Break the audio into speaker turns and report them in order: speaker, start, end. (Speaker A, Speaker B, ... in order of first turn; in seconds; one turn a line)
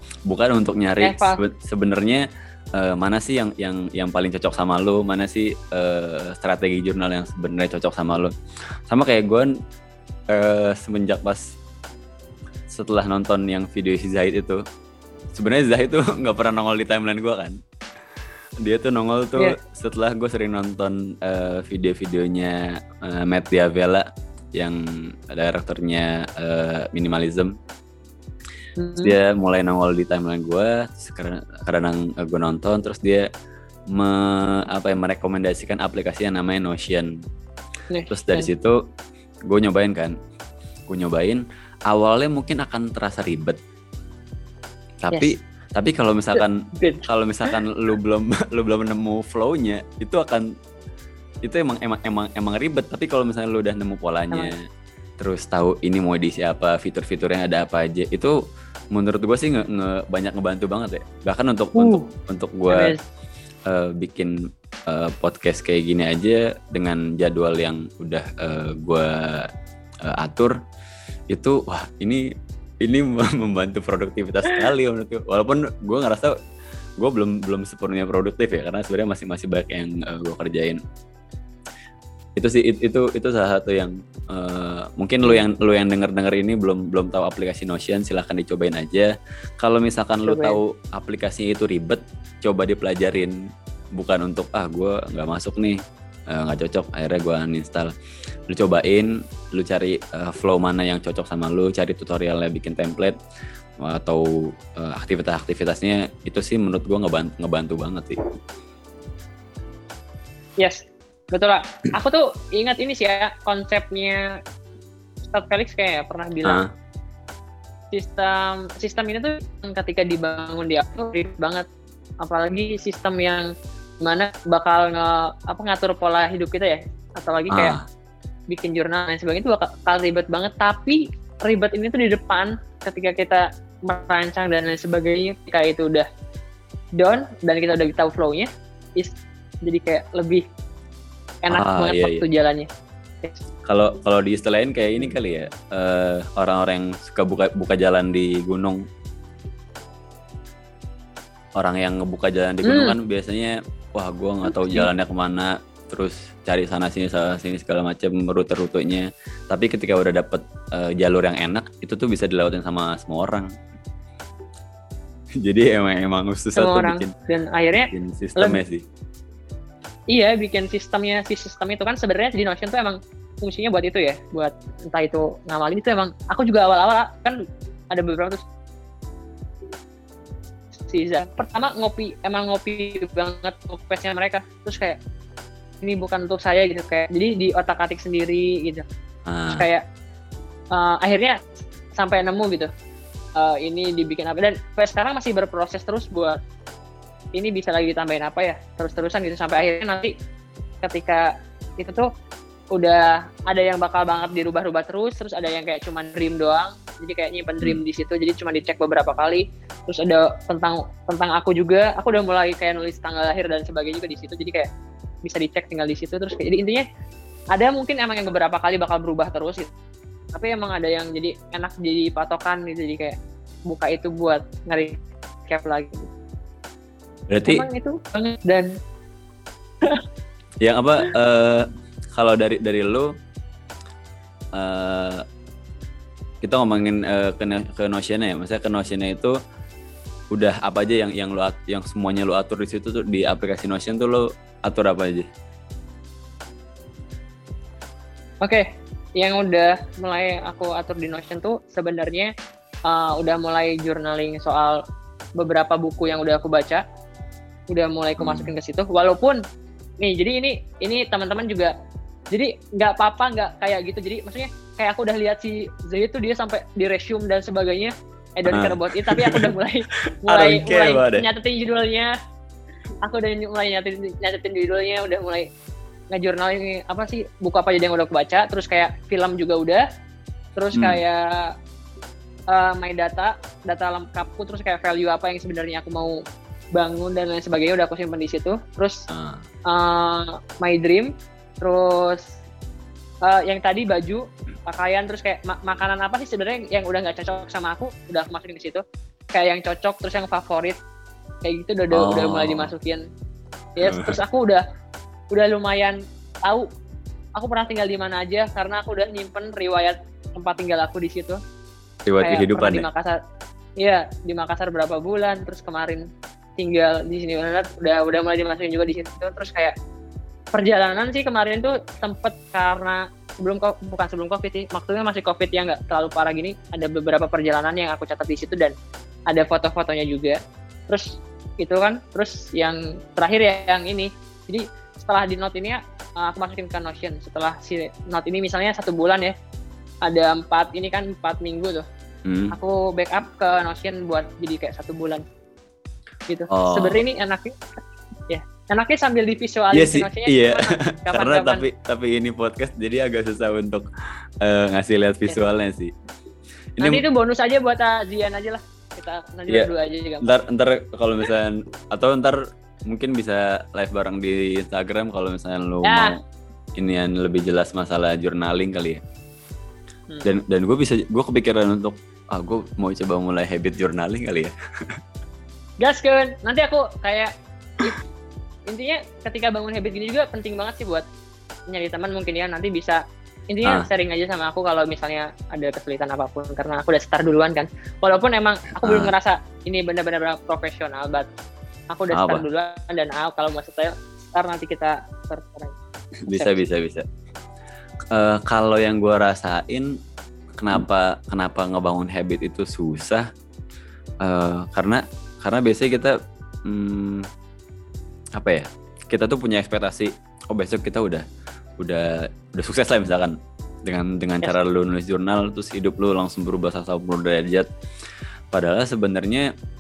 Speaker A: 0.3-8.3
Speaker B: 1.0-1.4
Speaker A: 8.9-9.5
Speaker A: 10.3-11.4
Speaker A: 12.7-14.6
Speaker A: 15.3-17.6
Speaker A: 18.6-27.5
Speaker B: 28.8-29.1
Speaker A: 29.0-33.3
Speaker A: 33.9-37.2
Speaker B: 37.9-38.5
Speaker A: 38.1-38.8
Speaker A: 39.5-40.1
Speaker A: 40.9-43.6
Speaker A: 45.0-50.5
Speaker B: 46.4-47.5
Speaker A: 51.4-54.6
Speaker A: 55.2-58.4
Speaker A: 58.9-63.0
Speaker B: 61.8-62.1
Speaker B: 62.7-63.0
Speaker A: 63.7-64.3
Speaker A: 64.9-69.5
Speaker A: 70.0-70.5
Speaker A: 71.3-72.2
Speaker A: 72.8-76.3
Speaker A: 77.0-80.8
Speaker A: 82.4-93.3
Speaker B: 90.2-90.6
Speaker A: 94.0-95.8
Speaker A: 96.3-97.9
Speaker A: 98.5-103.2
Speaker A: 103.8-108.2
Speaker B: 110.6-114.3
Speaker B: 115.3-116.6
Speaker B: 117.9-121.7
Speaker B: 122.2-123.5
Speaker B: 124.0-127.8
Speaker A: 127.5-127.8
Speaker B: 128.5-136.1
Speaker B: 137.0-140.4
Speaker B: 141.4-142.7
Speaker A: 141.5-142.2
Speaker A: 143.7-148.8
Speaker A: 151.6-163.5
Speaker B: 152.6-152.9
Speaker B: 154.5-154.9
Speaker A: 165.4-167.1
Speaker B: 166.6-168.6
Speaker A: 167.9-168.8
Speaker B: 170.1-177.4
Speaker B: 177.9-178.4
Speaker B: 180.8-185.0
Speaker B: 185.8-188.8
Speaker A: 189.3-189.7
Speaker B: 189.5-189.8
Speaker B: 190.7-191.4
Speaker B: 192.0-192.7
Speaker B: 193.4-196.4
Speaker B: 197.4-200.1
Speaker B: 200.8-202.1
Speaker B: 202.7-214.7
Speaker B: 215.2-216.8
Speaker B: 217.5-219.7
Speaker B: 220.3-226.1
Speaker A: 227.3-227.7
Speaker B: 227.5-228.7
Speaker A: 230.6-233.1
Speaker A: 234.6-235.2
Speaker A: 236.4-239.3
Speaker A: 240.3-245.3
Speaker B: 249.2-252.3
Speaker B: 252.9-254.8
Speaker B: 255.4-256.8
Speaker B: 257.7-259.4
Speaker A: 258.2-258.5
Speaker B: 260.0-261.7
Speaker B: 262.3-272.1
Speaker A: 268.5-269.5
Speaker A: 270.3-271.3
Speaker B: 273.0-275.5
Speaker B: 276.1-279.8
Speaker B: 280.6-281.5
Speaker A: 280.8-281.0
Speaker B: 282.5-286.2
Speaker B: 286.7-289.0
Speaker A: 289.1-289.4
Speaker B: 289.7-292.3
Speaker B: 293.2-298.8
Speaker B: 299.3-300.8
Speaker B: 301.4-303.1
Speaker A: 301.9-302.7
Speaker B: 303.8-304.6
Speaker A: 303.8-304.1
Speaker B: 305.3-306.7
Speaker B: 307.4-311.4
Speaker A: 312.1-312.9
Speaker B: 312.2-313.2
Speaker B: 313.8-316.1
Speaker B: 316.6-319.7
Speaker B: 320.5-328.7
Speaker B: 329.3-330.4
Speaker B: 330.9-339.3
Speaker B: 340.1-341.9
Speaker A: 342.3-342.6
Speaker B: 342.5-345.2
Speaker B: 346.3-347.6
Speaker A: 346.5-347.0
Speaker B: 348.3-351.6
Speaker A: 349.7-353.9
Speaker A: 354.4-355.9
Speaker A: 356.8-357.0
Speaker B: 356.8-360.3
Speaker A: 360.2-366.2
Speaker B: 365.8-366.2
Speaker A: 366.8-369.0
Speaker A: 370.2-375.0
Speaker B: 375.8-378.0
Speaker B: 378.7-381.1
Speaker B: 381.7-383.0
Speaker B: 383.5-391.3
Speaker A: 388.9-389.1
Speaker B: 391.9-395.8
Speaker A: 392.1-392.4
Speaker A: 396.2-397.1
Speaker B: 396.3-396.6
Speaker A: 398.1-399.9
Speaker A: 400.6-403.3
Speaker A: 404.2-406.1
Speaker A: 406.6-407.3
Speaker A: 408.4-411.2
Speaker A: 411.8-417.7
Speaker A: 418.5-419.5